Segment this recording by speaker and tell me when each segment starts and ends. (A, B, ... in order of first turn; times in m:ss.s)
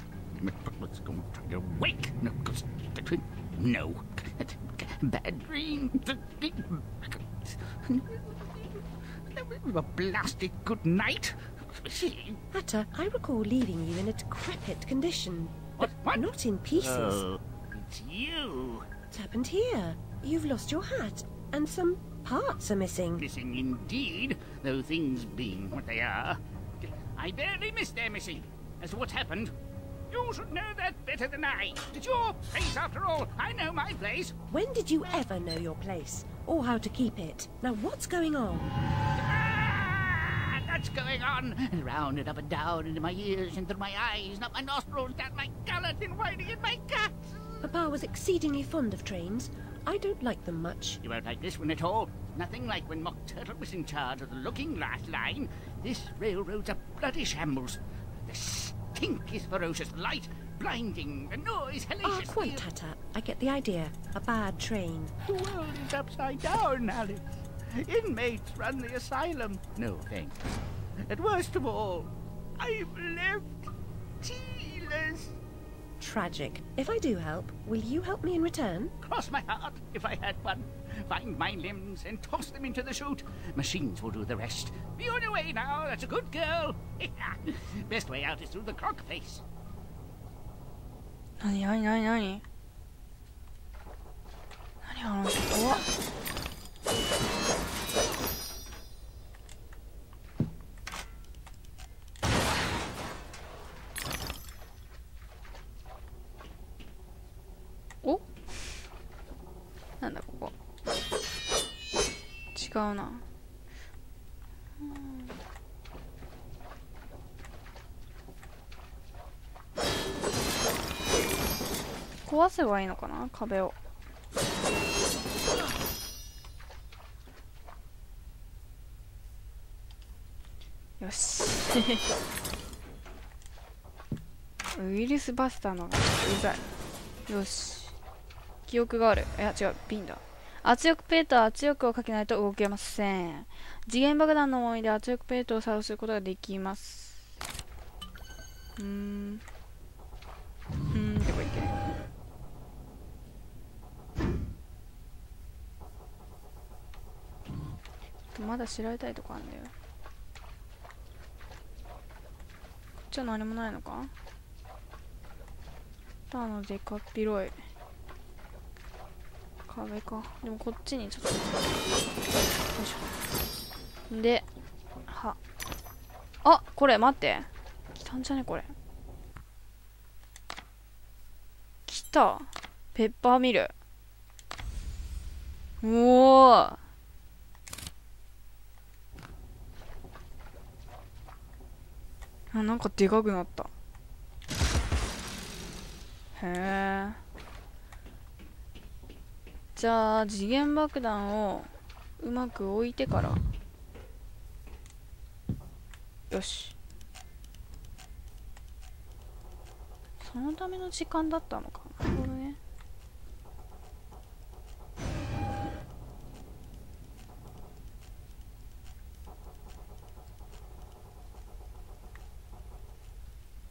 0:00.3-0:12.4 A
0:12.5-0:17.2 B
0:15.8-0:18.9 A
0:19.1-0:23.2 B
0:23.2-0:29.5 A
0:30.1-0:34.4 A
0:34.5-0:38.7 B
0:39.2-0:47.4 A
0:47.6-0:51.0 B
0:51.0-1:02.6 A
1:02.0-1:05.1 B
1:05.2-1:10.4 A
1:11.0-1:13.6 A
1:14.2-1:15.4 A
1:16.0-1:18.9 B
1:19.0-1:29.4 A
1:31.4-1:32.4 C
1:34.8-1:35.9 C
1:50.0-1:50.5 C
1:52.6-1:53.2 C
1:54.8-1:55.3 C
2:02.2-2:03.8 C
2:11.0-2:12.0 C
2:14.8-2:16.7 C
2:17.3-2:18.0 C
2:18.7-2:27.3 C
2:28.8-2:29.4 C
2:30.9-2:31.8 C
2:38.4-2:39.7 C
2:43.1-2:44.1 C
2:46.3-2:47.6 C
2:49.7-2:51.5 C
2:52.8-2:53.2 C
2:54.1-2:54.4 C
2:55.1-2:55.4 C
2:56.4-2:57.5 C
2:58.0-2:58.7 C
3:01.9-3:03.7 C
3:05.8-3:06.8 C
3:12.5-3:13.7 C
3:16.4-3:17.2 C
3:19.8-3:23.4 C
3:26.3-3:26.8 C
3:30.2-3:32.6 C